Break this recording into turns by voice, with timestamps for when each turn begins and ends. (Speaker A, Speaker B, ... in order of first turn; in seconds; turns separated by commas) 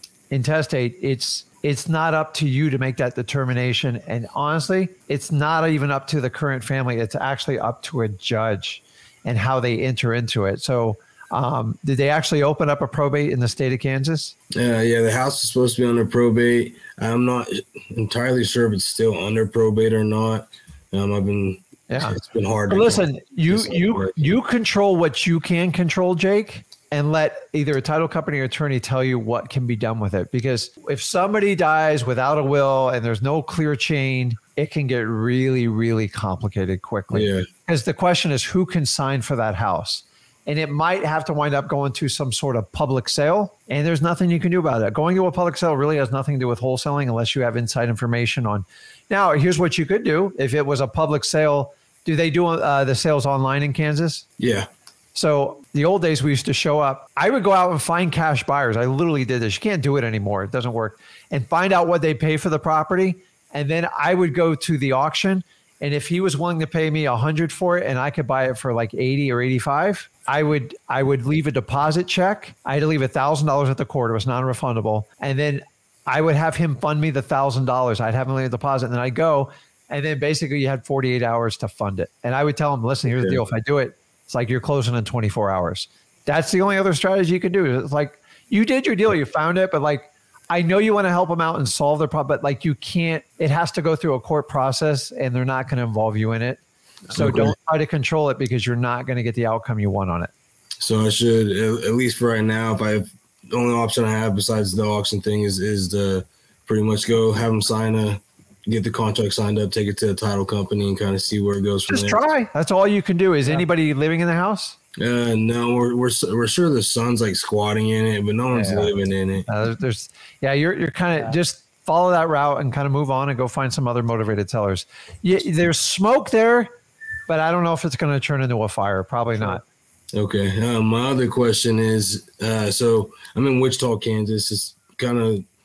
Speaker A: 0.3-14.3, Speaker B: 14.6-24.3, Speaker A: 21.9-22.1, Speaker A: 22.7-54.2, Speaker B: 37.1-37.5, Speaker B: 54.4-54.7, Speaker A: 55.1-96.6, Speaker B: 83.1-83.4, Speaker A: 97.1-100.3, Speaker B: 97.1-97.5, Speaker B: 100.8-112.2, Speaker A: 111.9-114.7, Speaker B: 115.0-119.5, Speaker A: 118.5-126.7, Speaker A: 127.3-129.6, Speaker B: 130.1-135.4